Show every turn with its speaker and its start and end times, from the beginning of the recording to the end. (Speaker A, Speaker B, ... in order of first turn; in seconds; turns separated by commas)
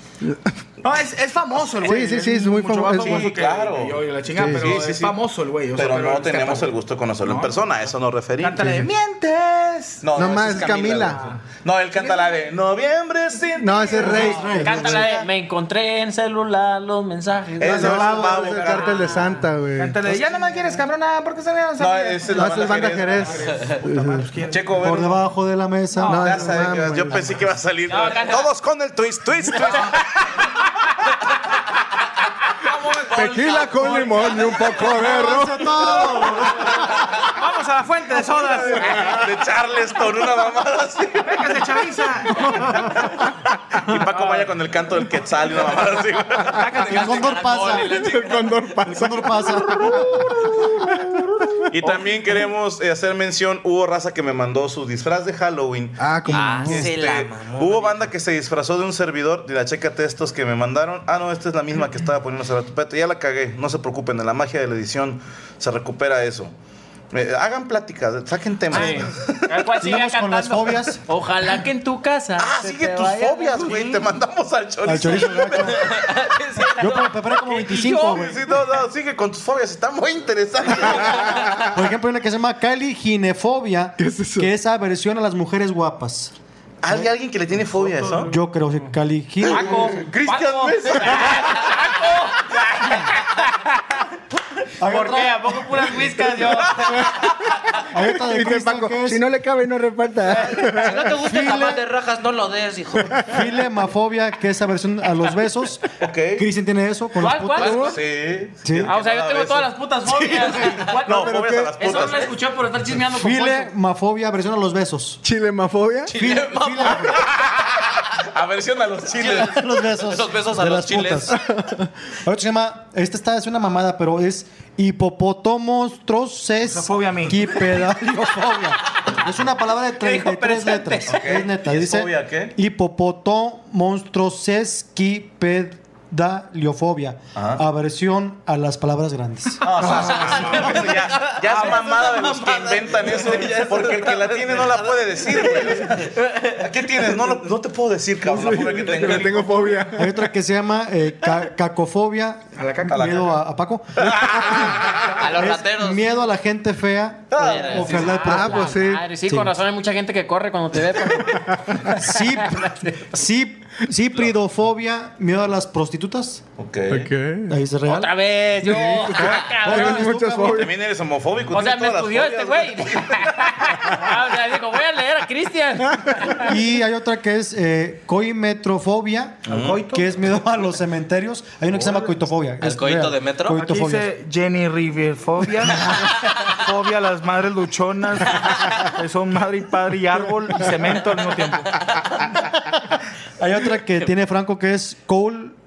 Speaker A: 0.2-0.5, Speaker B: 0.8-7.6, Speaker A: 1.8-3.3, Speaker C: 2.9-5.2, Speaker A: 4.3-4.8, Speaker C: 5.7-8.8, Speaker B: 8.4-11.4, Speaker A: 8.6-8.9, Speaker C: 10.0-15.3, Speaker A: 10.1-11.2, Speaker A: 13.6-14.9, Speaker D: 14.0-14.9, Speaker E: 14.5-17.9, Speaker C: 17.6-19.3, Speaker A: 17.6-20.3, Speaker D: 17.7-18.5, Speaker E: 18.6-19.3, Speaker B: 19.8-24.9, Speaker C: 21.8-23.5, Speaker A: 22.3-24.2, Speaker C: 24.4-25.2, Speaker D: 24.8-26.7, Speaker C: 26.0-30.4, Speaker A: 26.1-27.2, Speaker E: 27.9-28.5, Speaker B: 32.6-34.2, Speaker F: 33.1-33.8, Speaker A: 33.1-35.7, Speaker E: 34.1-34.9, Speaker D: 34.9-36.8, Speaker B: 35.8-36.3, Speaker B: 37.3-39.1, Speaker C: 38.3-41.5, Speaker B: 41.2-43.1, Speaker C: 43.8-46.9, Speaker B: 44.0-44.5, Speaker B: 46.5-47.2, Speaker F: 46.7-49.0, Speaker D: 46.9-48.1, Speaker A: 47.9-51.4, Speaker D: 48.8-50.2, Speaker C: 51.7-66.5, Speaker A: 56.0-56.9, Speaker F: 56.3-58.1, Speaker C: 67.1-69.6, Speaker E: 68.7-74.0, Speaker D: 69.8-71.0, Speaker C: 72.4-76.2, Speaker D: 74.8-75.9, Speaker E: 76.1-78.4, Speaker D: 76.8-78.4, Speaker C: 78.0-81.7, Speaker D: 81.7-86.3, Speaker A: 84.0-84.5, Speaker C: 86.8-88.3, Speaker D: 88.1-90.0, Speaker E: 89.4-93.5, Speaker C: 90.9-91.2, Speaker D: 94.8-95.9, Speaker E: 94.8-97.1, Speaker D: 97.9-99.2, Speaker A: 98.1-101.0, Speaker F: 100.3-103.3, Speaker D: 101.1-101.8, Speaker D: 103.2-107.9, Speaker C: 106.0-106.5, Speaker E: 107.2-107.8, Speaker F: 107.6-108.0, Speaker A: 107.6-107.9, Speaker C: 107.7-112.3, Speaker D: 108.6-108.9, Speaker E: 108.8-113.7, Speaker A: 111.0-112.0, Speaker D: 113.1-115.2, Speaker A: 115.2-116.1, Speaker F: 116.1-117.2, Speaker D: 116.1-117.2, Speaker C: 117.2-117.7, Speaker C: 118.2-119.6, Speaker D: 119.2-121.4, Speaker F: 119.2-121.3, Speaker A: 121.3-121.8, Speaker D: 122.2-139.7, Speaker B: 126.6-127.6, Speaker E: 130.0-131.2, Speaker C: 131.1-132.5, Speaker C: 137.3-137.6, Speaker C: 139.6-149.6, Speaker F: 139.8-145.9, Speaker A: 148.2-150.2, Speaker D: 149.9-159.5, Speaker B: 152.6-153.1, Speaker C: 152.9-153.3, Speaker C: 154.0-155.2, Speaker F: 155.2-156.1, Speaker C: 157.3-158.0, Speaker F: 157.4-158.1, Speaker E: 157.8-162.9, Speaker A: 158.2-159.0, Speaker D: 161.9-166.4, Speaker C: 166.6-167.1, Speaker A: 166.9-167.6, Speaker D: 167.5-170.6, Speaker E: 167.8-170.2, Speaker A: 168.6-170.7, Speaker C: 170.5-173.8, Speaker E: 171.5-176.5, Speaker D: 176.4-184.1, Speaker C: 179.4-179.9, Speaker B: 179.5-180.0, Speaker B: 181.8-182.1, Speaker F: 182.6-183.6, Speaker B: 183.6-191.8, Speaker D: 193.4-195.6